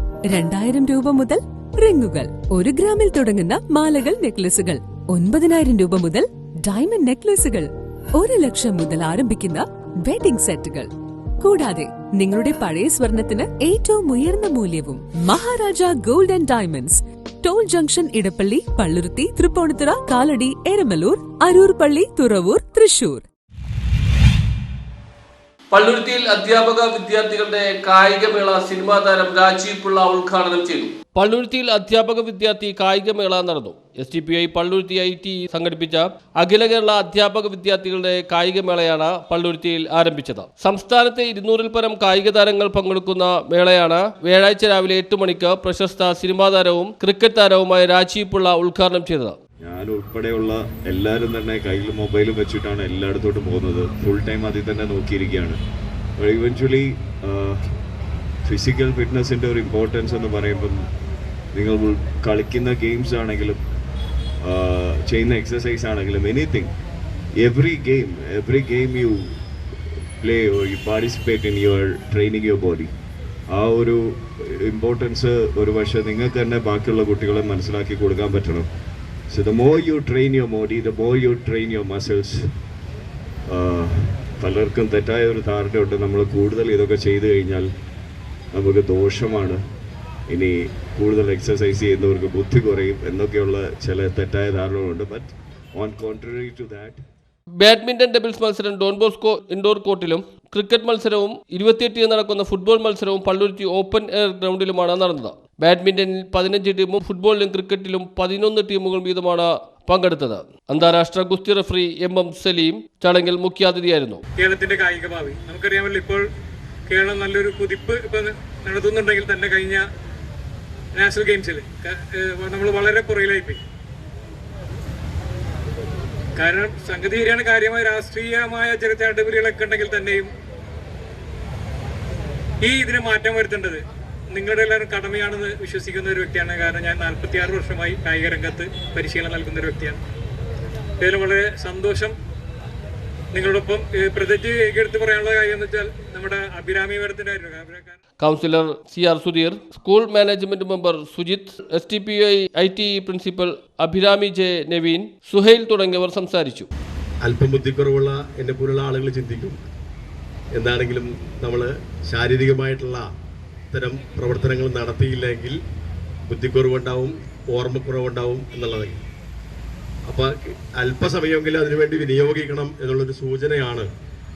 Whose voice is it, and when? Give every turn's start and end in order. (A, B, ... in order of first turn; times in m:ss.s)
0:00.3-0:23.2 A
0:25.7-0:49.4 B
0:49.6-0:55.6 C
0:56.2-0:57.7 C
0:58.4-1:00.9 C
1:01.5-1:03.6 C
1:04.4-1:06.7 C
1:07.4-1:09.3 C
1:10.2-1:12.9 C
1:13.5-1:18.7 C
1:19.3-1:22.5 C
1:23.5-1:27.7 C
1:28.5-1:29.6 C
1:30.3-1:37.0 C
1:37.6-1:54.2 B
1:54.4-1:56.2 D
1:56.9-1:59.8 D
2:01.0-2:03.6 D
2:06.4-2:10.3 D
2:12.6-2:20.0 D
2:21.0-2:22.1 D
2:23.3-2:28.0 D
2:28.2-2:36.7 B
2:37.2-2:39.6 E
2:40.5-2:43.1 E
2:43.7-2:45.6 E
2:46.3-2:49.0 E
2:50.1-2:53.9 E